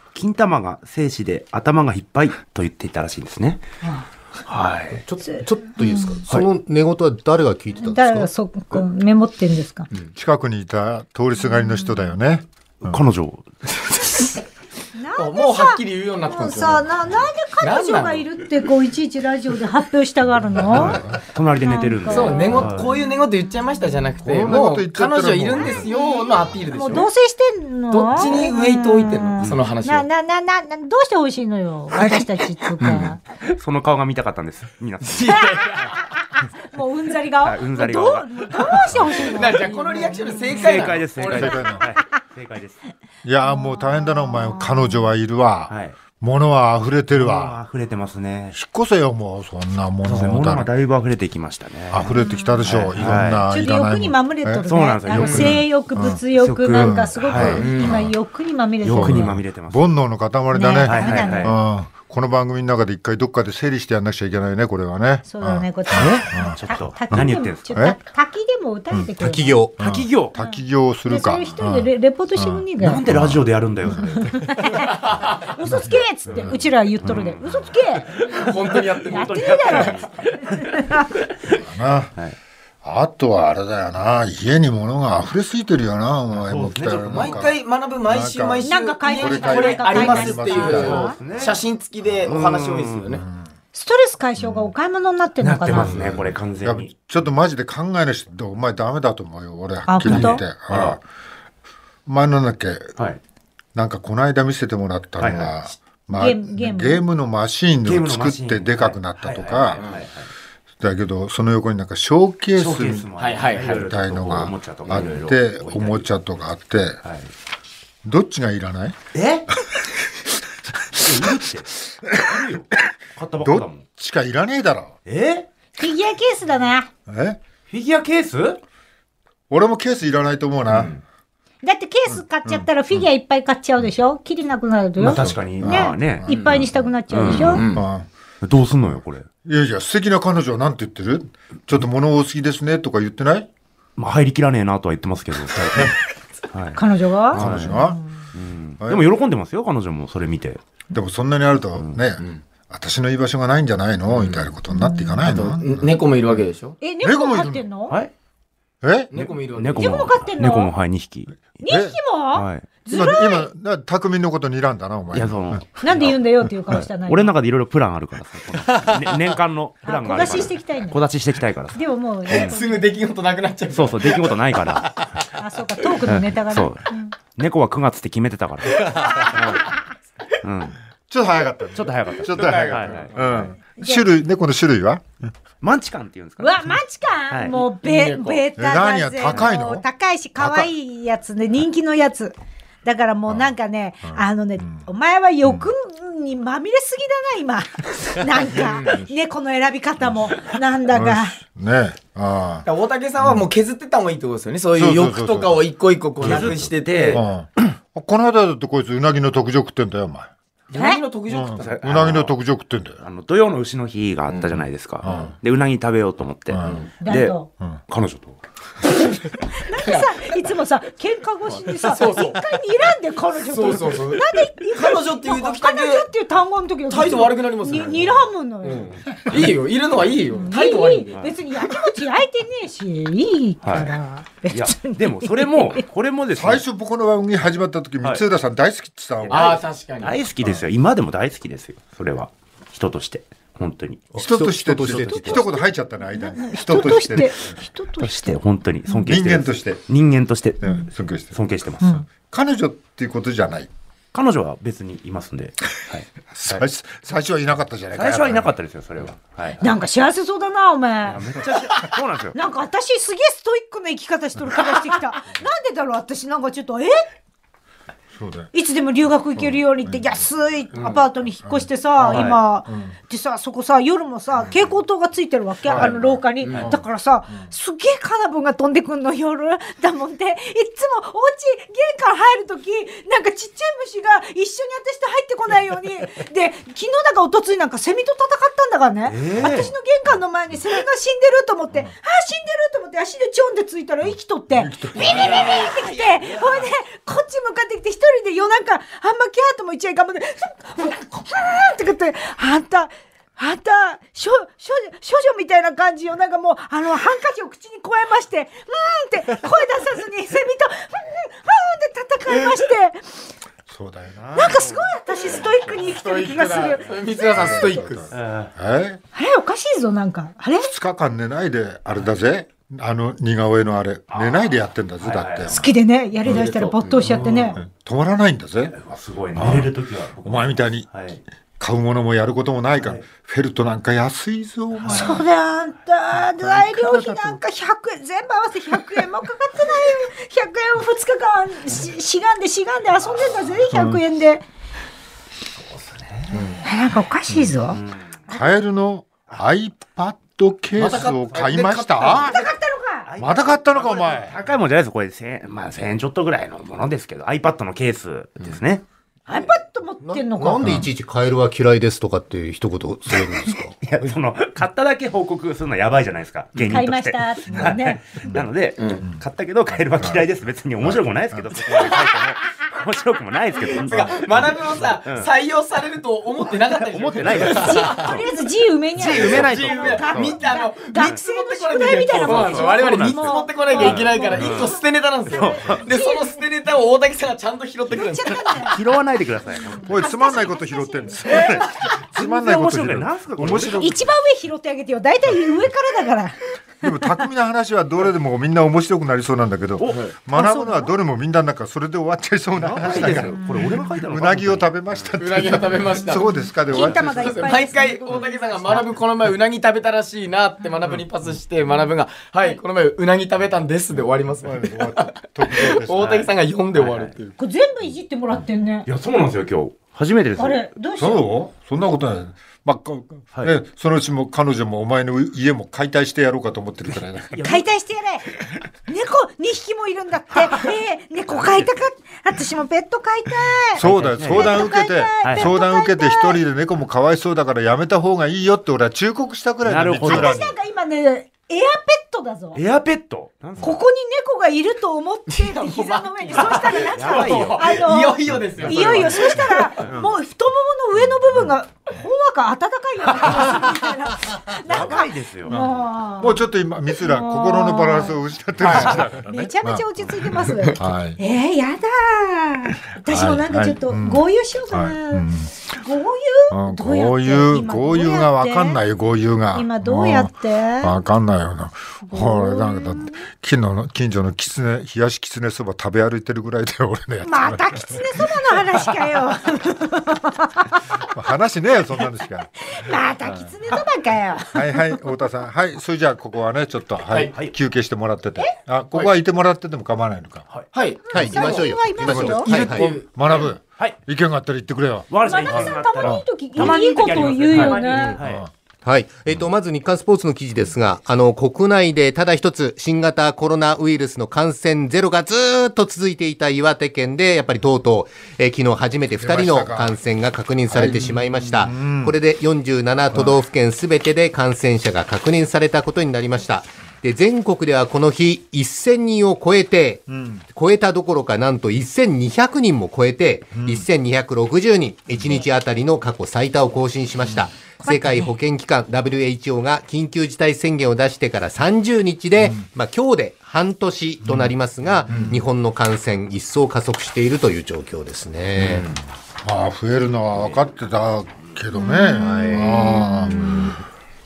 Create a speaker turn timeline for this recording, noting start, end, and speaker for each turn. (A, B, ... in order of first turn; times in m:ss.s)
0:00.1-0:03.6 A
0:04.5-0:05.0 A
0:04.9-0:08.3 B
0:05.2-0:06.2 C
0:07.8-0:09.9 C
0:10.1-0:13.0 D
0:11.4-0:12.1 C
0:12.8-0:13.5 A
0:14.9-0:21.0 C
0:15.2-0:16.9 E
0:17.6-0:18.3 E
0:20.6-0:21.2 D
0:20.7-0:22.9 A
0:21.6-0:22.8 C
0:22.1-0:27.1 E
0:24.2-0:26.0 D
0:25.6-0:33.2 C
0:27.9-0:30.1 E
0:32.8-0:33.1 E
0:33.4-0:35.5 A
0:35.0-0:36.0 E
0:35.3-0:40.9 C
0:37.4-0:39.1 A
0:39.2-0:41.6 E
0:40.5-0:42.8 A
0:41.2-0:41.8 D
0:41.4-0:42.0 C
0:43.2-0:47.6 D
0:43.4-0:45.1 C
0:45.7-0:46.0 A
0:47.1-0:48.6 A
0:48.5-0:50.7 D
0:50.0-0:52.1 A
0:51.9-0:56.2 D
0:52.0-0:52.7 C
0:52.6-0:53.4 A
0:53.5-0:59.4 C
0:54.7-0:55.6 A
0:55.2-0:55.5 E
0:56.3-0:57.7 A
0:56.7-0:58.1 D
0:57.6-0:58.0 E
0:58.8-0:59.8 A
0:58.9-1:06.6 D
1:00.5-1:01.6 C
1:00.8-1:01.6 A
1:05.2-1:09.5 C
1:06.0-1:07.7 A
1:07.1-1:08.0 D
1:09.2-1:09.7 B
1:09.8-1:14.3 D
1:09.8-1:10.4 A
1:10.4-1:13.0 C
1:12.8-1:14.7 A
1:14.0-1:18.2 C
1:15.0-1:15.4 E
1:15.6-1:16.6 D
1:17.0-1:21.6 A
1:18.3-1:19.9 E
1:19.1-1:21.1 C
1:21.5-1:22.1 D
1:22.8-1:31.2 D
1:26.3-1:27.5 A
1:27.1-1:33.2 E
1:28.6-1:31.2 C
1:30.5-1:31.6 A
1:32.2-1:33.1 A
1:33.2-1:33.4 D
1:33.7-1:36.0 C
1:34.4-1:34.7 D
1:35.4-1:36.9 A
1:35.7-1:41.0 D
1:39.9-1:40.4 C
1:40.0-1:41.0 A
1:42.0-1:42.9 D
1:43.7-1:49.8 D
1:45.2-1:45.5 A
1:46.1-1:47.0 C
1:47.8-1:50.3 A
1:50.8-1:53.1 D
1:52.5-1:56.1 A
1:53.2-1:53.8 E
1:53.6-1:57.0 D
1:57.0-1:57.3 A
1:58.0-1:59.0 D
1:59.1-1:59.5 A
2:00.9-2:03.8 A
2:01.0-2:01.4 D
2:02.1-2:02.4 D
2:03.4-2:04.9 D
2:05.0-2:05.5 A
2:05.8-2:06.9 C
2:07.1-2:07.4 D
2:07.7-2:08.6 A
2:09.5-2:11.0 D
2:10.7-2:11.0 E
2:11.6-2:17.6 C
2:12.1-2:12.7 D
2:15.0-2:16.4 A
2:15.0-2:18.1 D
2:16.3-2:16.6 E
2:17.1-2:17.7 A
2:17.3-2:17.8 E
2:18.4-2:19.3 A
2:19.4-2:23.5 D
2:24.0-2:26.8 A
2:26.7-2:28.1 C
2:27.3-2:30.6 A
2:27.3-2:28.0 D
2:28.8-2:29.1 D
2:30.9-2:35.9 D
2:34.1-2:34.5 E
2:34.7-2:35.2 C
2:35.2-2:36.8 E
2:36.8-2:38.0 C
2:37.0-2:37.6 D
2:38.8-2:39.1 D
2:39.1-2:40.1 E
2:39.1-2:41.3 A
2:39.8-2:40.7 C
2:41.6-2:43.5 C
2:41.7-2:42.0 D
2:42.3-2:42.7 A
2:42.9-2:45.6 D
2:45.1-2:46.2 A
2:45.8-2:47.3 C
2:46.7-2:51.8 A
2:49.8-2:51.0 C
2:51.7-2:52.9 C
2:52.3-2:54.4 E
2:53.7-2:55.1 A
2:55.3-2:57.1 C
2:56.0-2:59.6 A
2:58.9-2:59.6 E
2:58.9-2:59.8 C
3:00.4-3:00.8 A
3:01.1-3:05.3 D
3:01.7-3:03.5 A
3:02.2-3:03.4 E
3:03.8-3:04.0 C
3:05.6-3:06.8 A
3:06.4-3:21.4 C
3:07.3-3:07.6 A
3:07.5-3:08.5 E
3:08.6-3:09.8 D
3:10.4-3:10.7 D
3:14.0-3:14.8 D
3:15.4-3:15.7 D
3:18.5-3:19.0 E
3:20.0-3:22.6 D
3:22.6-3:27.2 E
3:24.7-3:25.6 D
3:26.2-3:27.2 A
3:26.2-3:30.3 D
3:30.7-3:32.0 E
3:30.7-3:31.0 C
3:31.3-3:33.0 D
3:31.6-3:32.4 A
3:33.0-3:38.4 A
3:34.3-3:35.3 E
3:35.0-3:35.3 D
3:36.5-3:36.8 D
3:36.6-3:36.9 E
3:37.0-3:37.5 C
3:39.4-3:48.9 C
3:39.8-3:40.2 E
3:41.8-3:42.4 E
3:43.4-3:46.1 E
3:46.9-3:51.2 E
3:50.3-3:55.8 C
3:53.6-3:53.9 A
3:54.5-3:56.6 A
3:56.3-3:59.6 D
3:59.2-4:04.1 A
3:59.3-4:00.2 E
4:04.1-4:05.5 B
4:04.1-4:07.6 D
4:04.8-4:05.4 A
4:06.1-4:09.1 C
4:08.0-4:10.7 A
4:09.0-4:09.8 D
4:10.6-4:11.4 D
4:11.3-4:12.0 A
4:11.8-4:12.0 C
4:12.1-4:13.7 D
4:14.1-4:16.6 A
4:16.3-4:18.5 D
4:17.9-4:19.6 A
4:19.6-4:21.4 C
4:21.1-4:22.4 A
4:22.3-4:27.0 C
4:28.1-4:28.5 D
4:28.5-5:13.2 C
4:29.4-4:30.2 D
4:30.7-4:31.0 E
4:31.4-4:32.9 D
4:32.1-4:32.4 A
4:35.7-4:37.5 D
4:35.7-4:36.7 E
4:49.1-4:49.7 A
4:54.5-4:55.6 D
4:55.0-4:56.7 A
5:12.3-5:12.6 E
5:13.7-5:14.8 D
5:14.3-5:17.8 C
5:15.8-5:18.1 E
5:17.3-5:19.0 D
5:18.1-5:18.5 A
5:19.1-5:20.7 C
5:20.6-5:25.7 D
5:24.1-5:25.6 A
5:25.4-5:27.6 C
5:26.2-5:27.2 E
5:27.0-5:27.5 A
5:27.6-5:28.7 D
5:28.7-5:31.2 A
5:29.4-5:29.7 D
5:30.2-5:30.9 D
5:31.6-5:35.2 D
5:32.7-5:33.0 A
5:34.7-5:35.2 A
5:34.9-5:44.4 C
5:36.4-5:37.4 D
5:43.7-5:44.0 D
5:45.7-5:46.4 A
5:46.3-5:46.6 E
5:46.6-5:48.5 C
5:47.7-5:48.1 A
5:48.3-5:52.4 D
5:50.8-5:52.4 E
5:52.0-5:53.1 C
5:53.1-5:58.8 A
5:53.2-5:54.3 D
5:59.3-6:00.8 C
6:00.0-6:03.8 B
6:00.6-6:00.9 D
6:03.8-6:15.3 A
6:06.6-6:08.0 C
6:08.8-6:09.0 E
6:10.8-6:11.8 D
6:13.7-6:18.2 E
6:16.7-6:18.2 A
6:17.5-6:24.8 C
6:19.0-6:20.4 A
6:19.1-6:28.7 E
6:21.9-6:24.7 A
6:25.3-6:25.8 A
6:25.3-6:26.4 C
6:27.9-6:28.8 C
6:28.7-6:30.0 A
6:29.7-6:31.9 C
6:29.8-6:34.0 D
6:32.0-6:33.9 A
6:33.7-6:37.1 C
6:36.8-6:47.6 D
6:39.8-6:40.0 A
6:40.3-6:40.9 C
6:42.6-6:45.1 A
6:43.0-6:43.9 C
6:45.2-6:57.4 E
6:46.1-6:48.9 C
6:54.4-6:56.2 D
6:56.0-6:57.1 A
6:57.4-6:58.9 C
6:58.8-7:00.7 A
7:00.4-7:01.2 C
7:01.0-7:07.4 D
7:06.9-7:07.6 A
7:07.4-7:08.3 C
7:08.9-7:16.4 C
7:11.4-7:11.7 A
7:13.8-7:20.5 D
7:13.8-7:14.7 A
7:15.2-7:15.5 A
7:19.6-7:20.5 A
7:20.0-7:22.6 C
7:22.5-7:23.8 A
7:23.6-7:48.8 C
7:25.3-7:29.7 E
7:26.8-7:27.7 A
7:34.7-7:35.5 A
7:35.5-7:39.8 D
7:38.6-7:39.0 E
7:38.7-7:39.0 A
7:40.5-7:40.8 E
7:40.8-7:41.2 D
7:43.1-7:45.5 D
7:46.5-7:58.6 D
7:49.5-7:50.9 C
7:52.1-7:53.2 C
7:57.2-8:01.1 C
8:01.0-8:02.5 D
8:02.6-8:05.0 C
8:03.2-8:03.7 D
8:04.5-8:10.5 D
8:07.1-8:07.3 E
8:10.7-8:11.8 E
8:11.0-8:12.5 C
8:11.1-8:12.9 B
8:12.0-8:16.2 D
8:12.4-8:13.5 E
8:15.1-8:18.4 A
8:15.2-8:18.2 C
8:17.5-8:18.0 E
8:18.2-8:18.5 D
8:18.8-8:58.9 B
8:29.2-8:30.0 D
8:30.7-8:32.2 D
8:40.1-8:40.4 D
8:43.5-8:43.8 D
8:47.8-8:48.2 C
8:54.2-8:54.5 D
8:55.1-8:55.4 D
8:55.1-8:55.3 E
8:59.4-9:03.6 D
9:01.7-9:03.7 C
9:02.2-9:03.5 B